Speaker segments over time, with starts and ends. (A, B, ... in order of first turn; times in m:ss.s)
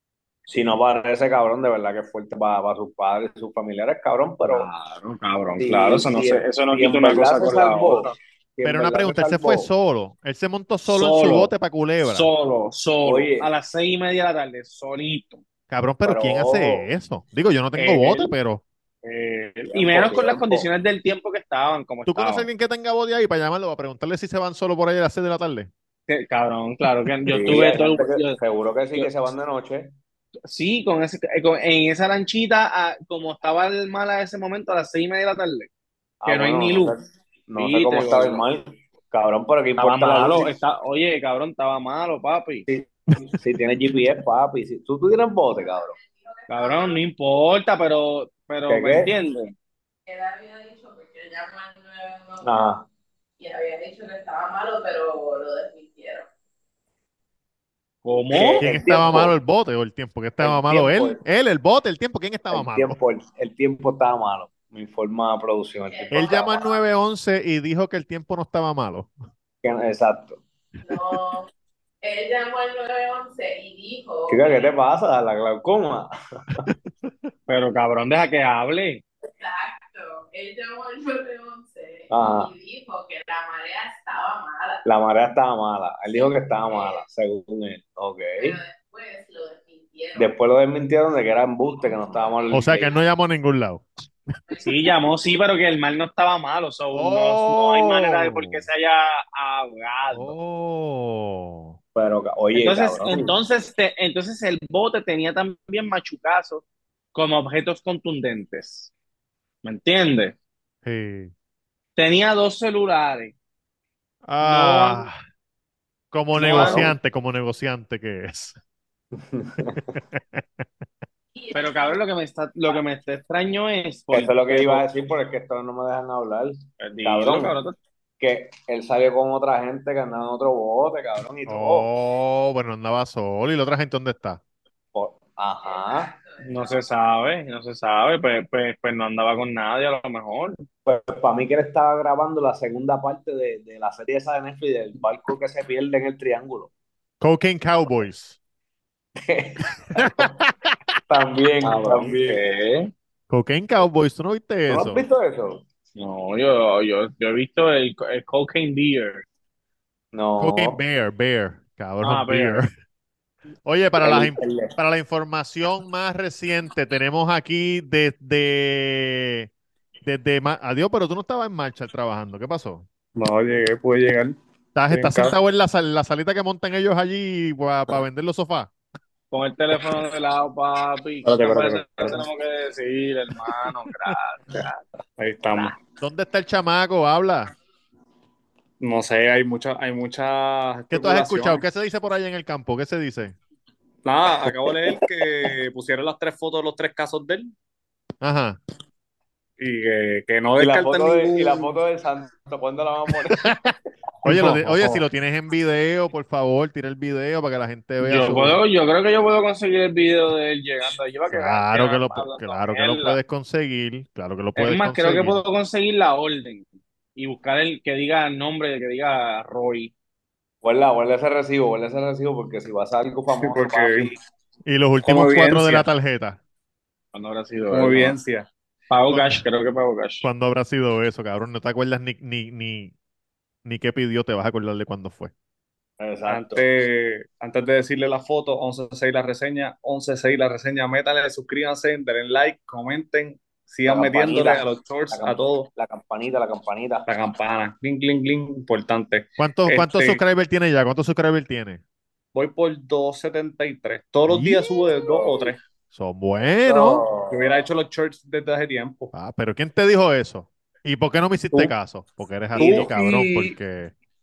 0:00.5-0:04.7 A
0:04.4-0:08.1 B
0:05.6-0:09.7 A
0:08.6-0:12.3 C
0:10.9-0:15.4 B
0:13.0-0:13.5 A
0:15.7-0:18.6 C
0:16.0-0:16.9 A
0:17.8-0:18.3 B
0:19.0-0:22.5 B
0:19.7-0:20.7 A
0:22.1-0:25.7 C
0:26.1-0:28.4 B
0:27.3-0:29.9 A
0:30.5-0:35.7 B
0:36.2-0:40.5 A
0:36.3-0:37.0 B
0:37.6-0:38.4 B
0:39.8-0:42.7 B
0:42.7-0:46.0 A
0:45.7-0:47.0 D
0:46.5-0:49.5 B
0:48.7-0:49.1 A
0:50.1-0:52.5 D
0:52.4-0:52.9 A
0:53.4-0:56.3 D
0:58.0-0:58.7 B
0:58.3-0:59.3 A
0:58.6-1:03.0 C
1:00.4-1:01.2 A
1:02.5-1:06.6 A
1:05.9-1:06.9 D
1:06.1-1:09.1 C
1:09.6-1:10.4 A
1:10.9-1:11.5 D
1:12.0-1:14.7 D
1:14.3-1:16.1 A
1:17.5-1:19.0 B
1:19.3-1:24.8 D
1:22.1-1:22.5 A
1:24.8-1:28.6 A
1:26.1-1:27.0 D
1:28.4-1:30.4 D
1:30.2-1:32.9 A
1:31.7-1:33.0 D
1:32.5-1:33.8 C
1:34.5-1:35.0 D
1:34.6-1:40.3 B
1:36.9-1:38.7 C
1:40.1-1:41.8 C
1:42.0-1:43.4 A
1:42.5-1:48.9 B
1:49.6-1:50.4 B
1:50.8-1:51.3 C
1:52.0-1:53.4 B
1:54.3-1:55.2 C
1:54.4-1:55.1 B
1:56.1-1:58.6 C
1:56.3-1:56.9 B
1:56.5-1:56.9 A
1:59.2-2:00.0 A
1:59.8-2:00.4 C
2:01.4-2:02.0 D
2:01.5-2:04.8 B
2:04.1-2:07.6 A
2:06.8-2:07.8 B
2:08.2-2:11.9 A
2:11.5-2:14.4 C
2:14.9-2:16.1 A
2:15.6-2:16.8 D
2:16.4-2:20.6 B
2:20.9-2:26.7 A
2:27.2-2:28.4 C
2:29.2-2:30.4 A
2:30.0-2:30.8 C
2:31.1-2:32.4 A
2:31.6-2:32.9 B
2:33.3-2:35.0 C
2:34.7-2:35.6 A
2:36.0-2:39.2 B
2:40.1-2:40.8 A
2:40.4-2:42.7 C
2:42.0-2:42.6 B
2:43.6-2:49.5 C
2:44.0-2:44.7 A
2:50.0-2:52.9 C
2:53.2-2:54.4 E
2:54.8-2:58.7 C
2:54.9-2:55.4 E
2:59.3-3:04.8 B
3:01.2-3:02.2 E
3:05.2-3:05.8 E
3:06.0-3:07.5 C
3:08.8-3:11.6 E
3:10.9-3:13.4 C
3:14.0-3:17.5 E
3:18.2-3:18.6 C
3:19.6-3:21.7 E
3:20.6-3:23.5 A
3:24.2-3:28.6 C
3:24.3-3:25.0 E
3:28.0-3:33.2 B
3:31.3-3:35.4 C
3:34.6-3:36.6 B
3:37.2-3:39.9 B
3:40.6-3:44.2 A
3:43.4-3:44.1 E
3:44.7-3:46.4 C
3:45.0-3:45.9 E
3:47.1-3:48.2 B
3:47.7-3:48.5 E
3:48.9-3:50.2 B
3:49.1-3:49.4 C
3:50.2-3:52.9 C
3:53.6-3:55.3 C
3:56.0-3:56.6 A
3:56.3-4:05.7 E
4:03.9-4:07.1 A
4:07.1-4:10.2 E
4:09.4-4:11.8 C
4:12.3-4:15.6 E
4:14.3-4:14.7 C
4:15.1-4:15.5 A
4:15.9-4:17.0 C
4:16.7-4:17.5 A
4:17.3-4:19.1 E
4:19.1-4:23.9 C
4:22.6-4:23.6 E